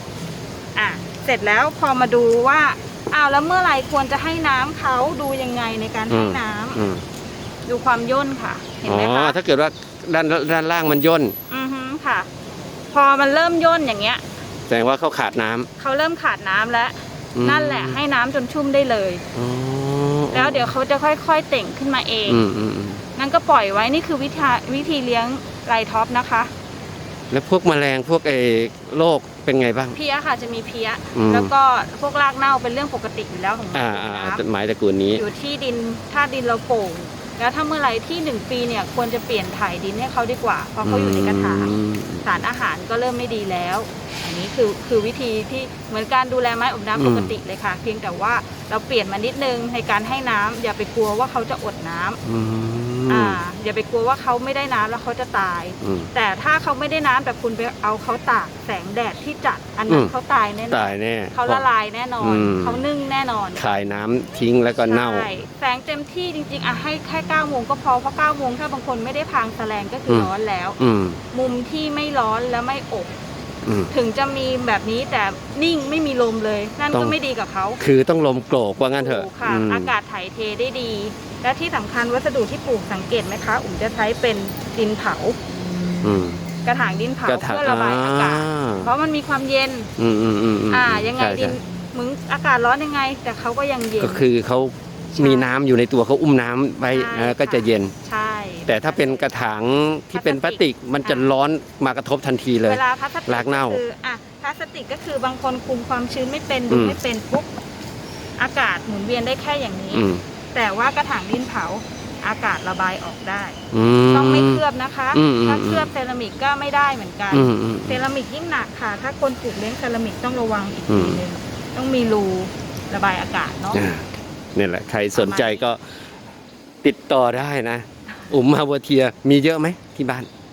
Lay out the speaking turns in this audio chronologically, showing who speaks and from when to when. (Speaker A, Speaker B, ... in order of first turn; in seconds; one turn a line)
Speaker A: 0.8-6.8
Speaker B: 6.1-7.0
Speaker A: 7.7-9.4
Speaker B: 8.8-11.3
Speaker A: 11.5-12.3
Speaker A: 12.9-14.2
Speaker B: 14.7-15.7
Speaker A: 15.8-19.2
Speaker B: 17.4-18.0
Speaker B: 19.3-20.7
Speaker A: 20.3-22.4
Speaker B: 22.3-23.0
Speaker A: 23.2-26.5
Speaker B: 27.3-30.0
Speaker A: 29.9-34.4
Speaker B: 31.1-31.5
Speaker B: 33.7-35.2
Speaker A: 35.1-41.7
Speaker B: 40.8-42.4
Speaker A: 42.2-52.2
Speaker B: 47.0-47.4
Speaker B: 52.2-53.4
Speaker A: 53.1-63.6
Speaker B: 55.8-56.1
Speaker B: 60.7-61.7
Speaker B: 62.2-62.9
Speaker B: 63.6-65.3
Speaker A: 64.8-70.8
Speaker B: 70.1-71.2
Speaker A: 71.3-73.2
Speaker B: 73.7-73.9
Speaker A: 73.9-77.8
Speaker B: 77.8-79.9
Speaker A: 78.9-85.4
Speaker B: 86.0-86.5
Speaker A: 86.6-89.9
Speaker B: 87.3-88.9
Speaker B: 90.0-91.6
Speaker A: 90.7-94.2
Speaker B: 94.0-97.9
Speaker A: 95.1-95.5
Speaker A: 96.9-99.3
Speaker B: 98.7-103.8
Speaker A: 100.1-101.3
Speaker A: 102.7-107.5
Speaker B: 106.7-107.0
Speaker A: 108.4-113.6
Speaker B: 109.9-110.2
Speaker B: 113.7-114.6
Speaker A: 114.1-123.9
Speaker B: 115.1-115.9
Speaker B: 117.3-118.0
Speaker B: 120.9-121.2
Speaker B: 123.7-125.8
Speaker A: 125.1-125.7
Speaker B: 126.8-130.3